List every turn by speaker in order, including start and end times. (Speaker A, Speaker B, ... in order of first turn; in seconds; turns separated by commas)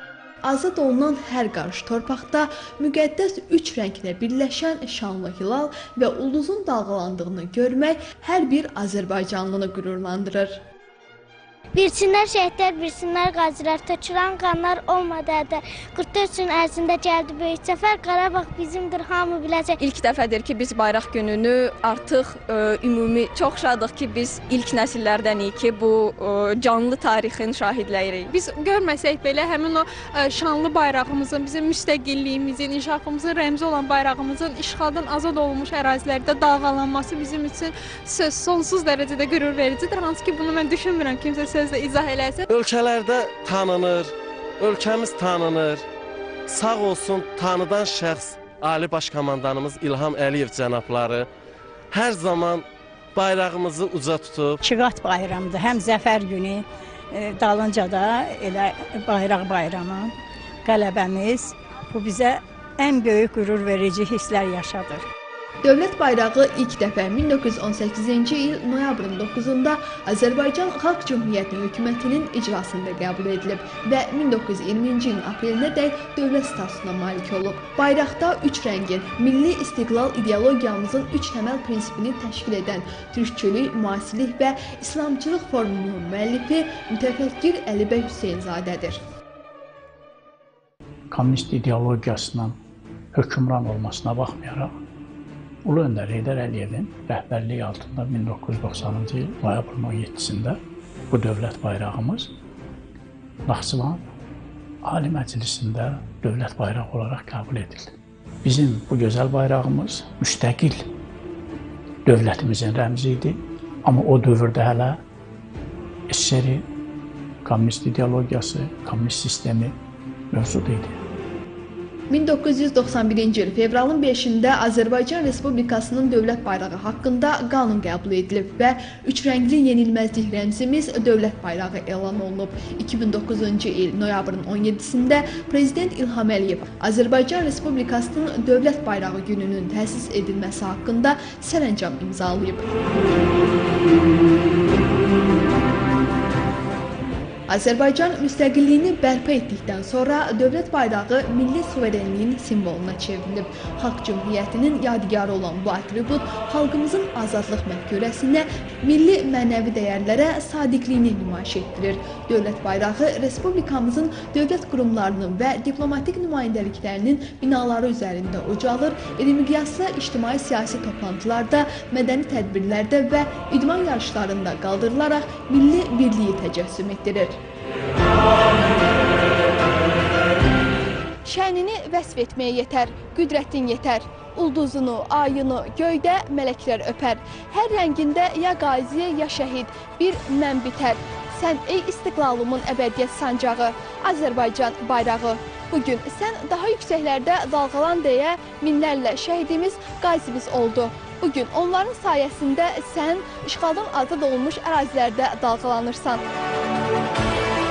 Speaker A: 0.4-10.6, Speaker B: 11.8-19.8, Speaker C: 19.8-28.2, Speaker D: 28.3-42.4, Speaker E: 42.5-45.8, Speaker E: 46.5-51.2, Speaker E: 51.9-54.6, Speaker F: 54.6-60.1, Speaker F: 60.6-65.0, Speaker A: 65.6-89.0, Speaker G: 91.1-92.6, Speaker G: 93.1-94.7, Speaker G: 95.6-100.6, Speaker G: 101.1-102.3, Speaker G: 103.4-104.0, Speaker G: 104.8-110.8, Speaker G: 112.0-115.0, Speaker G: 116.1-116.7, Speaker G: 117.4-119.8, Speaker G: 120.3-121.0, Speaker A: 122.1-142.8, Speaker A: 147.5-177.4, Speaker A: 181.2-206.2